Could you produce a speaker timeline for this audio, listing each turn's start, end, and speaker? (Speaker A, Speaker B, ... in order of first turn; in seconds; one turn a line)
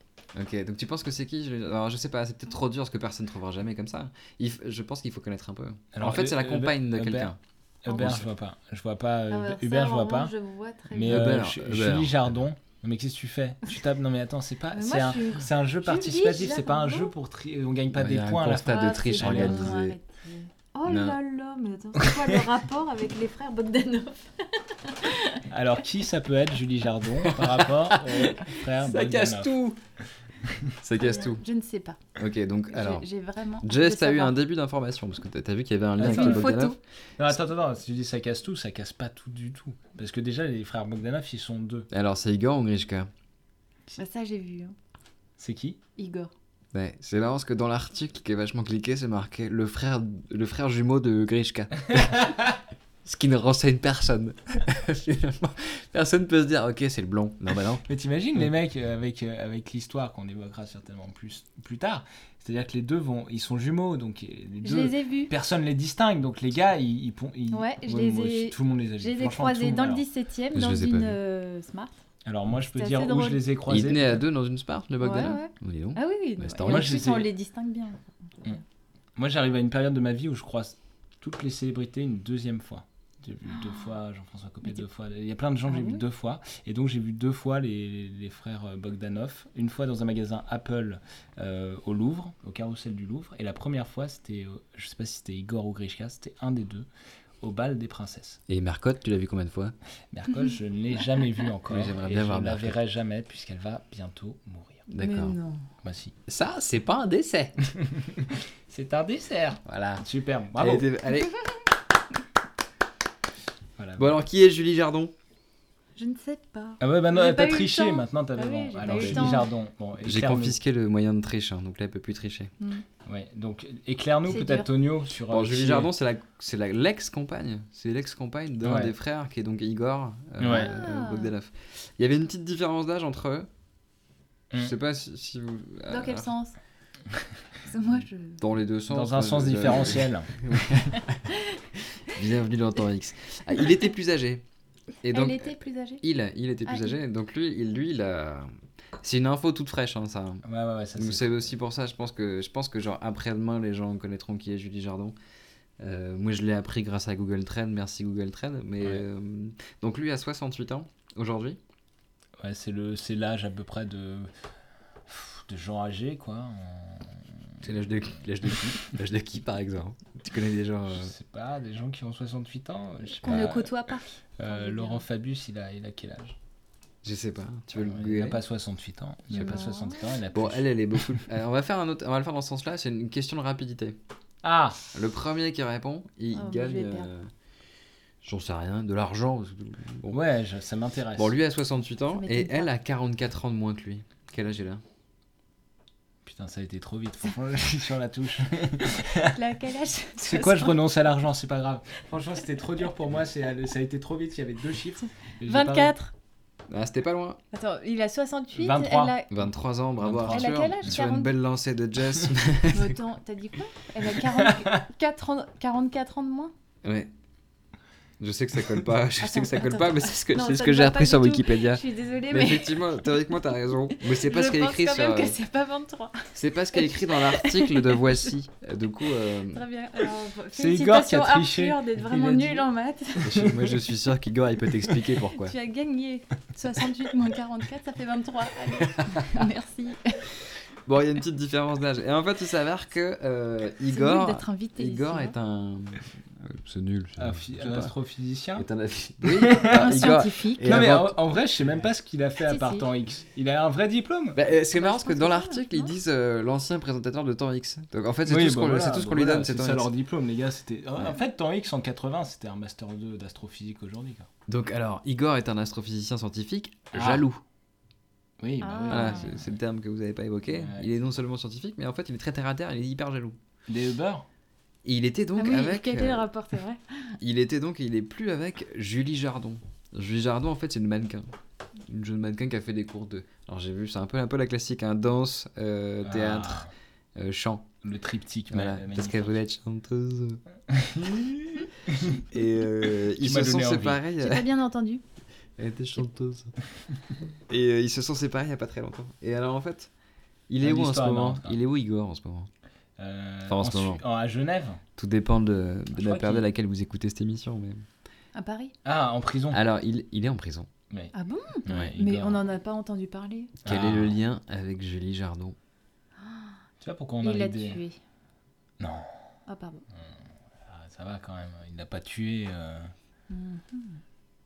Speaker A: 0.3-7.4
Speaker B: 5.9-10.3
Speaker C: 7.9-8.2
Speaker A: 7.9-8.2
Speaker C: 9.3-11.3
Speaker B: 10.9-19.8
Speaker A: 11.0-12.4
Speaker C: 14.7-17.1
Speaker A: 17.9-20.0
Speaker C: 18.6-25.4
Speaker A: 20.8-21.2
Speaker B: 25.5-29.5
Speaker A: 27.2-29.8
Speaker A: 30.8-31.4
Speaker C: 31.0-32.0
Speaker A: 32.1-33.1
Speaker C: 32.7-34.4
Speaker A: 33.6-36.8
Speaker B: 36.0-36.5
Speaker C: 36.0-36.8
Speaker B: 37.2-41.9
Speaker A: 41.9-43.1
Speaker C: 43.9-44.8
Speaker B: 45.4-45.8
Speaker C: 46.0-46.3
Speaker A: 46.7-52.3
Speaker A: 53.0-57.8
Speaker B: 57.8-70.0
Speaker C: 64.6-65.3
Speaker C: 67.5-72.0
Speaker A: 70.5-71.2
Speaker B: 72.2-74.2
Speaker C: 72.7-73.4
Speaker A: 73.7-77.0
Speaker C: 75.0-78.6
Speaker B: 76.7-77.3
Speaker B: 79.2-96.9
Speaker C: 83.5-83.9
Speaker C: 85.7-86.0
Speaker B: 97.4-98.4
Speaker A: 98.5-99.7
Speaker B: 100.1-104.8
Speaker A: 101.7-102.8
Speaker A: 104.9-105.3
Speaker C: 104.9-105.7
Speaker B: 105.8-106.1
Speaker A: 106.3-107.5
Speaker B: 107.8-111.0
Speaker A: 109.7-110.0
Speaker A: 110.5-111.4
Speaker B: 113.8-114.1
Speaker A: 114.0-115.1
Speaker C: 116.0-119.5
Speaker B: 116.8-120.6
Speaker A: 118.8-119.4
Speaker A: 120.0-122.5
Speaker C: 122.6-122.8
Speaker B: 123.0-125.9
Speaker C: 124.3-124.7
Speaker A: 125.3-133.5
Speaker B: 128.6-128.9
Speaker B: 130.4-130.7
Speaker C: 130.5-131.3
Speaker A: 134.5-136.3
Speaker C: 135.9-136.6
Speaker C: 137.7-138.4
Speaker A: 138.4-141.2
Speaker B: 138.9-140.3
Speaker C: 141.3-141.6
Speaker A: 142.1-144.4
Speaker A: 145.0-150.4
Speaker C: 145.1-146.0
Speaker C: 146.7-146.9
Speaker B: 150.4-151.5
Speaker A: 150.9-155.2
Speaker A: 155.8-161.6
Speaker B: 162.4-164.3
Speaker B: 165.1-167.7
Speaker A: 167.6-171.1
Speaker B: 170.9-173.7
Speaker C: 173.2-175.0
Speaker A: 173.3-173.5
Speaker B: 174.4-176.3
Speaker A: 177.0-178.4
Speaker B: 177.7-181.1
Speaker C: 179.3-180.0
Speaker A: 180.3-184.0
Speaker B: 184.4-184.8
Speaker A: 184.9-187.3
Speaker C: 186.3-187.1
Speaker A: 188.2-190.2
Speaker B: 190.1-191.3
Speaker A: 191.2-194.8
Speaker C: 192.1-192.7
Speaker B: 196.2-199.3
Speaker C: 199.2-200.8
Speaker B: 200.2-205.9
Speaker C: 205.4-206.1
Speaker A: 206.7-207.4
Speaker C: 207.5-209.3
Speaker B: 208.6-209.2
Speaker A: 209.3-213.0
Speaker B: 210.0-210.9
Speaker C: 210.3-211.3
Speaker C: 212.7-216.5
Speaker A: 216.8-217.1
Speaker A: 218.2-225.4
Speaker C: 219.2-223.0
Speaker C: 223.9-228.3
Speaker A: 226.3-229.6
Speaker C: 229.5-233.5
Speaker B: 230.5-232.7
Speaker A: 233.2-235.5
Speaker B: 233.3-233.7
Speaker C: 235.3-240.2
Speaker A: 240.8-247.9
Speaker C: 243.9-245.3
Speaker B: 247.2-248.7
Speaker A: 248.6-251.2
Speaker B: 249.2-249.9
Speaker C: 249.7-250.8
Speaker B: 250.6-254.4
Speaker C: 252.5-252.8
Speaker A: 254.3-259.9
Speaker C: 254.7-255.9
Speaker B: 258.2-264.3
Speaker A: 264.5-267.4
Speaker B: 266.9-267.2
Speaker B: 268.4-269.4
Speaker C: 268.6-269.3
Speaker A: 268.9-273.4
Speaker B: 270.5-270.9
Speaker B: 273.7-274.2
Speaker A: 274.8-276.3
Speaker C: 275.4-277.1
Speaker A: 277.2-281.3
Speaker A: 281.9-286.6
Speaker B: 286.0-286.7
Speaker A: 287.1-287.7
Speaker B: 287.8-289.4
Speaker A: 288.5-290.4
Speaker B: 290.7-292.2
Speaker A: 292.3-294.5
Speaker B: 293.2-294.0
Speaker C: 294.2-295.0
Speaker A: 295.6-296.5
Speaker A: 297.5-299.9
Speaker A: 300.5-302.5
Speaker B: 300.6-301.6
Speaker B: 303.0-304.8
Speaker A: 303.5-304.0
Speaker A: 305.0-307.8
Speaker B: 305.9-306.4
Speaker C: 308.3-308.7
Speaker B: 308.8-309.6
Speaker A: 309.5-310.7
Speaker C: 311.1-313.5
Speaker B: 311.6-312.4
Speaker B: 313.6-314.2
Speaker A: 313.6-315.6
Speaker C: 316.2-316.6
Speaker B: 316.8-317.8
Speaker C: 317.2-318.0
Speaker B: 318.8-319.1
Speaker C: 319.5-319.8
Speaker B: 320.6-322.9
Speaker C: 323.3-324.0